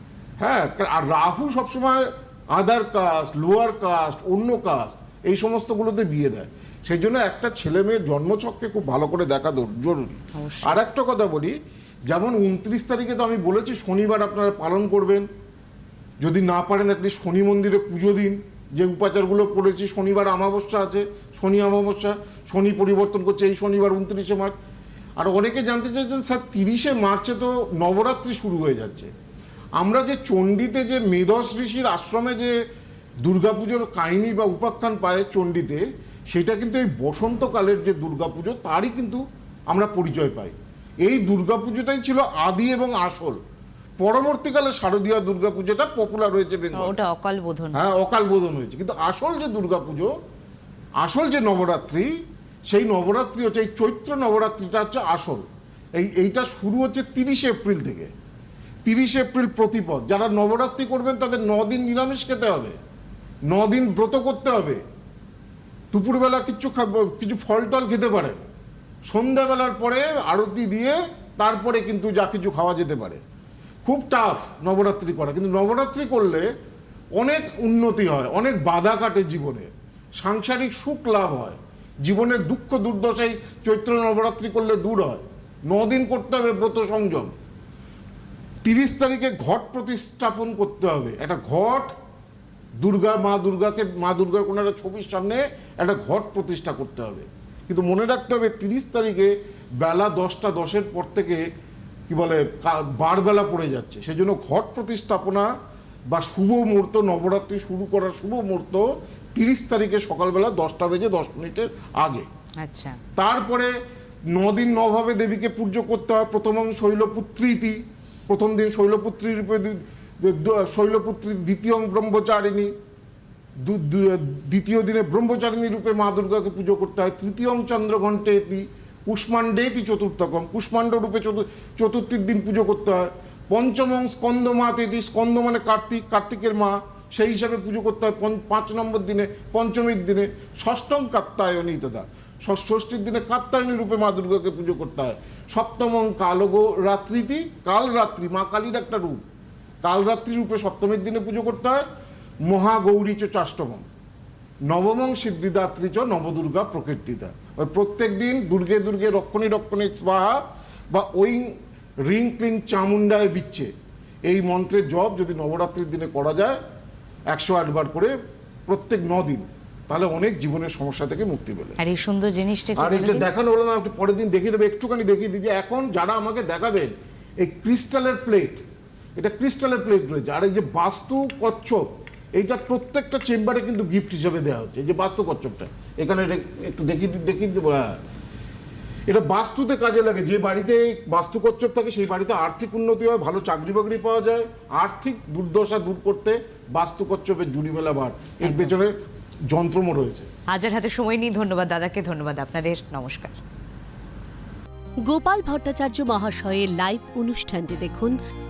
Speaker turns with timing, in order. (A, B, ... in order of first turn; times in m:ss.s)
0:00.4-0:11.5 A
0:10.3-0:10.8 B
0:12.1-0:15.3 A
0:16.2-0:24.5 A
0:25.2-0:29.1 A
0:29.8-0:32.6 A
0:33.2-0:43.4 A
0:44.0-0:46.9 A
0:46.7-0:47.8 B
0:47.7-0:50.1 A
0:51.0-0:52.2 A
0:52.7-0:58.1 A
0:58.8-1:02.8 A
1:03.5-1:04.8 A
1:05.9-1:08.4 A
1:09.1-1:13.2 A
1:13.8-1:16.5 A
1:17.2-1:27.3 A
1:28.6-1:31.9 A
1:32.8-1:41.4 A
1:42.1-1:45.5 A
1:46.1-1:52.3 A
1:52.6-1:53.0 B
1:53.2-1:53.7 A
1:54.3-2:02.7 A
2:03.6-2:29.2 A
2:29.8-2:31.8 A
2:32.4-2:33.8 A
2:34.7-2:41.5 A
2:42.0-2:43.7 A
2:44.2-2:46.6 A
2:47.3-2:48.1 A
2:48.7-2:51.8 A
2:51.8-2:53.3 B
2:52.8-2:58.6 A
2:59.2-3:01.8 A
3:02.4-3:08.0 A
3:09.1-3:18.9 A
3:18.4-3:18.7 B
3:19.5-3:20.3 A
3:20.5-3:23.4 B
3:25.0-3:28.2 C